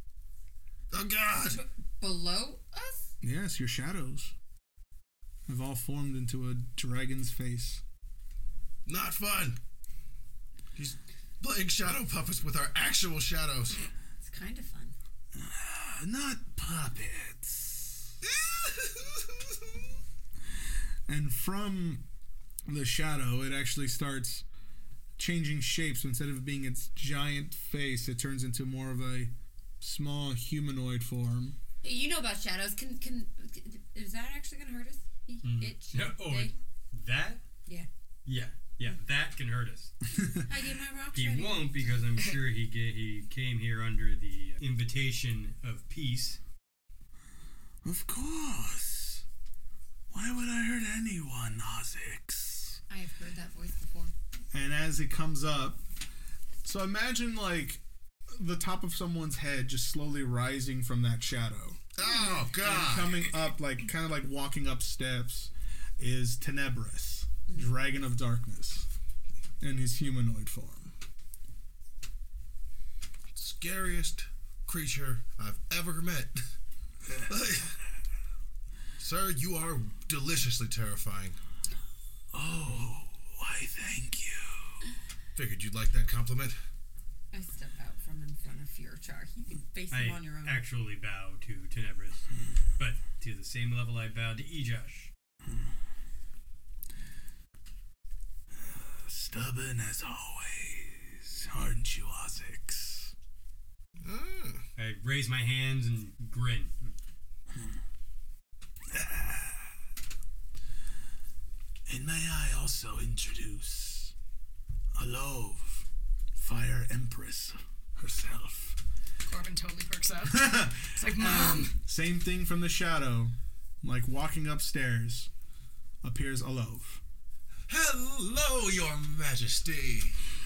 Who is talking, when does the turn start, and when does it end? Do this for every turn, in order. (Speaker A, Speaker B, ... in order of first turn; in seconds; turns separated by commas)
Speaker A: 0.9-1.6, Speaker B: 1.5-3.1, Speaker C: 3.2-4.3, Speaker C: 5.5-7.8, Speaker A: 8.8-9.6, Speaker A: 10.8-13.8, Speaker B: 14.2-14.9, Speaker C: 15.3-18.1, Speaker A: 18.2-19.3, Speaker C: 21.1-22.1, Speaker C: 22.6-24.4, Speaker C: 25.2-31.6, Speaker B: 31.8-36.5, Speaker D: 35.4-37.4, Speaker D: 38.2-39.9, Speaker B: 40.5-41.8, Speaker D: 41.1-46.4, Speaker C: 47.8-49.2, Speaker C: 50.1-52.8, Speaker B: 52.9-54.1, Speaker C: 54.5-55.8, Speaker C: 56.6-61.8, Speaker A: 61.9-63.2, Speaker C: 62.6-68.9, Speaker C: 69.6-70.9, Speaker A: 73.3-76.4, Speaker A: 77.3-77.7, Speaker A: 79.0-81.4, Speaker C: 82.3-84.8, Speaker A: 85.3-86.5, Speaker B: 87.3-90.6, Speaker D: 89.9-92.2, Speaker D: 92.8-95.1, Speaker C: 98.6-103.1, Speaker A: 104.0-104.6, Speaker D: 104.8-106.9, Speaker C: 108.9-109.7, Speaker C: 111.9-114.1, Speaker C: 114.9-118.8, Speaker E: 119.2-121.8, Speaker C: 120.2-125.3, Speaker C: 126.0-127.0, Speaker A: 127.7-130.2